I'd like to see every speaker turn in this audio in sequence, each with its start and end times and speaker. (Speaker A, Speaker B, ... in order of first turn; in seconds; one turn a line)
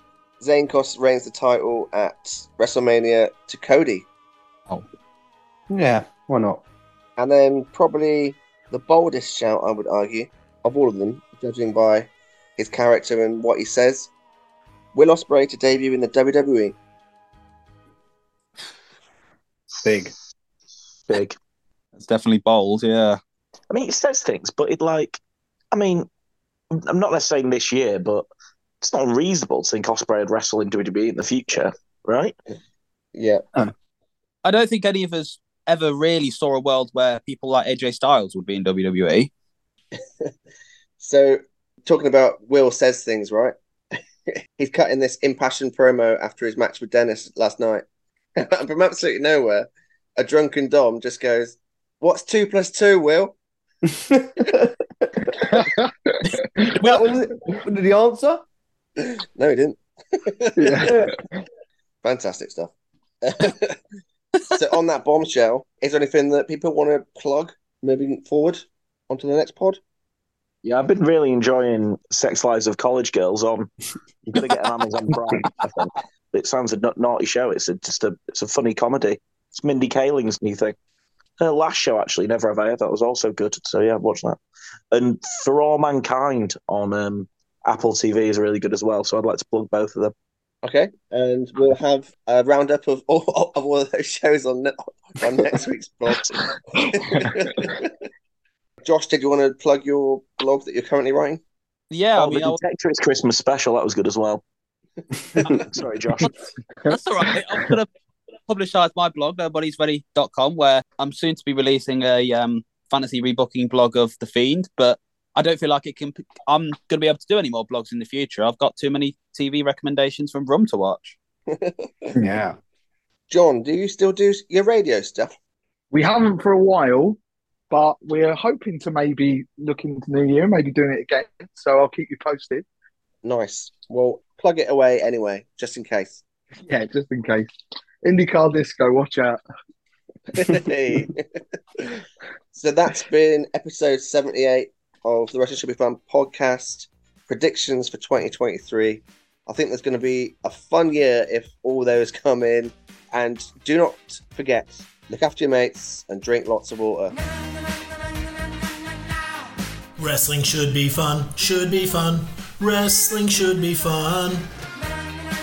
Speaker A: 0.4-4.0
Speaker B: 5.7-6.6
Speaker A: 7.2-14.1
Speaker A: 14.9-16.8
Speaker B: 19.8-20.1
Speaker C: 21.1-21.4
Speaker D: 21.9-23.2
Speaker C: 23.7-25.2
Speaker C: 25.7-26.1
Speaker C: 26.7-28.2
Speaker C: 28.8-32.3
Speaker A: 33.1-33.4
Speaker D: 34.4-39.3
Speaker A: 41.0-43.5
Speaker A: 44.6-47.8
Speaker A: 48.4-53.3
Speaker B: 53.8-55.2
Speaker E: 55.4-56.7
Speaker B: 56.7-58.4
Speaker A: 59.0-61.1
Speaker E: 60.6-61.2
Speaker A: 62.0-62.7
Speaker A: 63.2-63.8
Speaker A: 64.5-69.8
Speaker C: 70.6-73.7
Speaker C: 74.2-80.8
Speaker C: 81.4-84.4
Speaker C: 84.9-90.1
Speaker A: 90.6-97.9
Speaker E: 96.8-97.5
Speaker A: 98.8-101.4
Speaker D: 101.9-102.6
Speaker C: 102.2-104.4
Speaker C: 105.5-106.3
Speaker D: 106.9-107.9
Speaker D: 108.5-121.2
Speaker A: 121.5-121.9
Speaker B: 122.2-122.5
Speaker A: 123.3-125.3
Speaker E: 125.9-127.2
Speaker E: 127.7-132.7
Speaker A: 133.2-136.2
Speaker E: 136.7-137.5
Speaker E: 138.0-139.4
Speaker A: 140.3-141.3
Speaker A: 142.5-157.2
Speaker F: 160.0-164.5